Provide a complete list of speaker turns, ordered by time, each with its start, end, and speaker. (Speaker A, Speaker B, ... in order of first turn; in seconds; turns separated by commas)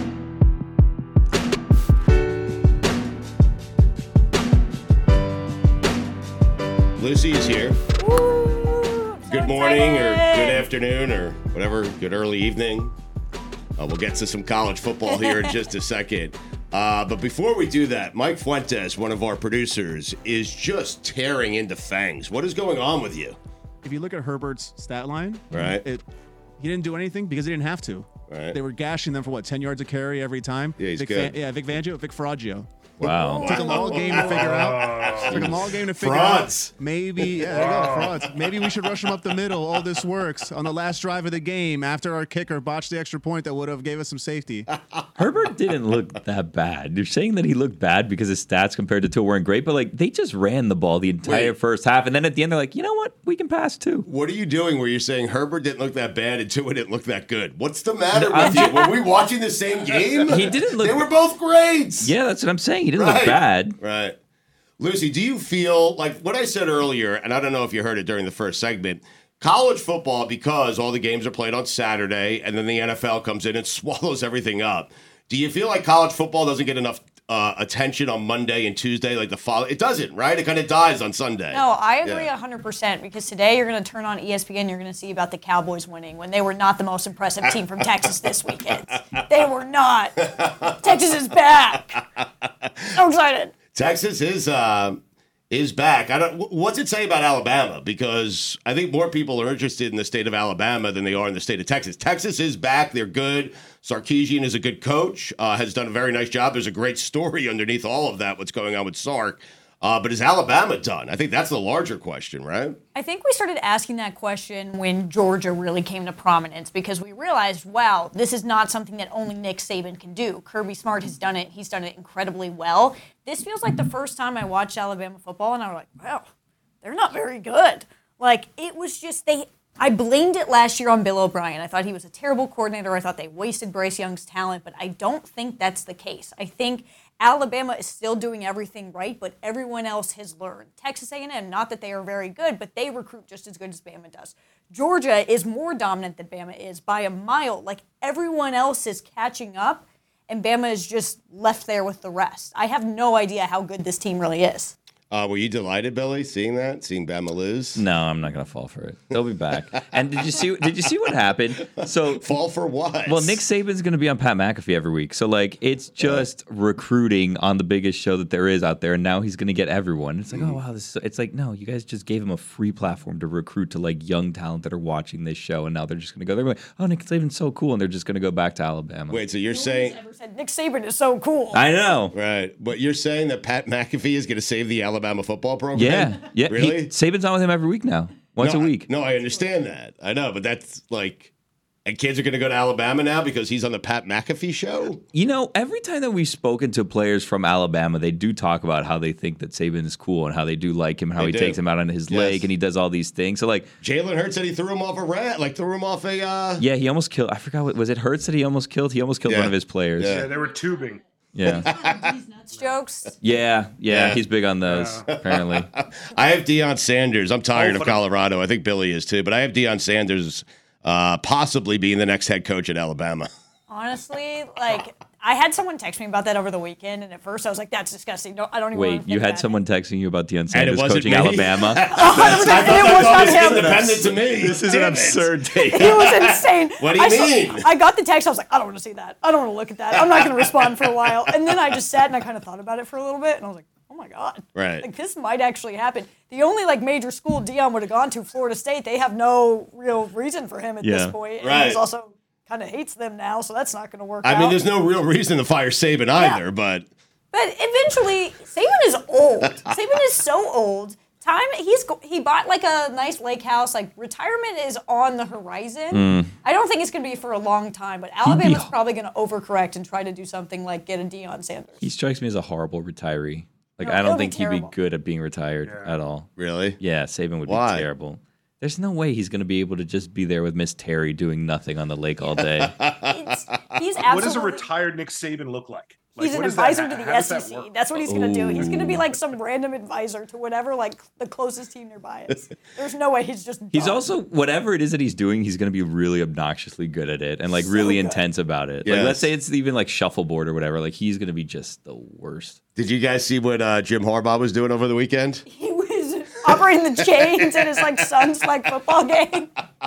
Speaker A: 6.9-7.8, Speaker B: 8.0-10.7, Speaker A: 9.3-12.9, Speaker A: 13.8-23.4, Speaker B: 15.1-15.5, Speaker C: 23.8-26.0, Speaker A: 25.5-25.8, Speaker C: 26.6-32.7, Speaker A: 28.3-28.6, Speaker A: 30.8-31.3, Speaker D: 33.0-33.5, Speaker A: 33.0-38.1, Speaker B: 33.2-34.3, Speaker C: 33.4-44.7, Speaker E: 34.2-35.5, Speaker E: 37.5-38.2, Speaker D: 45.1-54.1, Speaker A: 51.2-51.5, Speaker A: 54.0-62.1, Speaker D: 58.1-58.9, Speaker D: 60.2-61.1, Speaker D: 62.0-63.8, Speaker A: 63.0-64.2, Speaker A: 64.8-82.2, Speaker B: 81.5-92.0, Speaker A: 90.2-91.0, Speaker A: 92.2-92.9, Speaker B: 92.9-93.5, Speaker A: 93.7-112.8, Speaker B: 112.9-126.2, Speaker B: 126.8-154.7, Speaker A: 155.1-157.8, Speaker D: 157.8-162.2, Speaker A: 161.8-163.4, Speaker D: 163.1-179.2, Speaker A: 166.0-166.2, Speaker A: 170.3-170.6, Speaker A: 179.1-179.9, Speaker B: 179.5-181.6, Speaker D: 181.5-182.1, Speaker A: 182.1-186.9, Speaker D: 185.7-188.9, Speaker A: 188.4-191.3, Speaker A: 191.8-195.0, Speaker D: 195.1-203.7, Speaker A: 201.2-202.5, Speaker A: 203.8-206.6, Speaker D: 206.6-210.2, Speaker A: 209.2-210.3, Speaker E: 210.0-211.0, Speaker D: 211.3-211.7, Speaker A: 211.5-212.2, Speaker B: 212.3-213.2, Speaker D: 213.2-215.7, Speaker A: 213.9-214.2, Speaker E: 214.7-215.1, Speaker A: 215.1-223.3, Speaker E: 217.5-218.0, Speaker B: 223.7-229.5, Speaker D: 228.7-236.1, Speaker A: 230.5-237.7, Speaker B: 231.9-234.0, Speaker B: 235.7-254.6, Speaker A: 239.9-241.3, Speaker A: 244.5-244.8, Speaker D: 250.8-251.1, Speaker A: 251.4-251.8, Speaker A: 254.2-256.9, Speaker B: 256.2-256.4, Speaker B: 257.3-271.8, Speaker D: 265.9-266.3, Speaker D: 268.2-268.7, Speaker D: 271.8-282.8, Speaker B: 273.8-274.7, Speaker E: 275.6-275.9, Speaker A: 276.4-276.8, Speaker A: 277.4-277.9, Speaker A: 282.4-283.3, Speaker B: 283.0-284.7, Speaker E: 284.1-287.8, Speaker B: 286.2-294.0, Speaker D: 288.1-289.0, Speaker D: 293.7-302.6, Speaker B: 297.6-298.2, Speaker A: 298.8-299.3, Speaker A: 302.8-305.4, Speaker B: 305.5-309.5, Speaker A: 306.5-307.9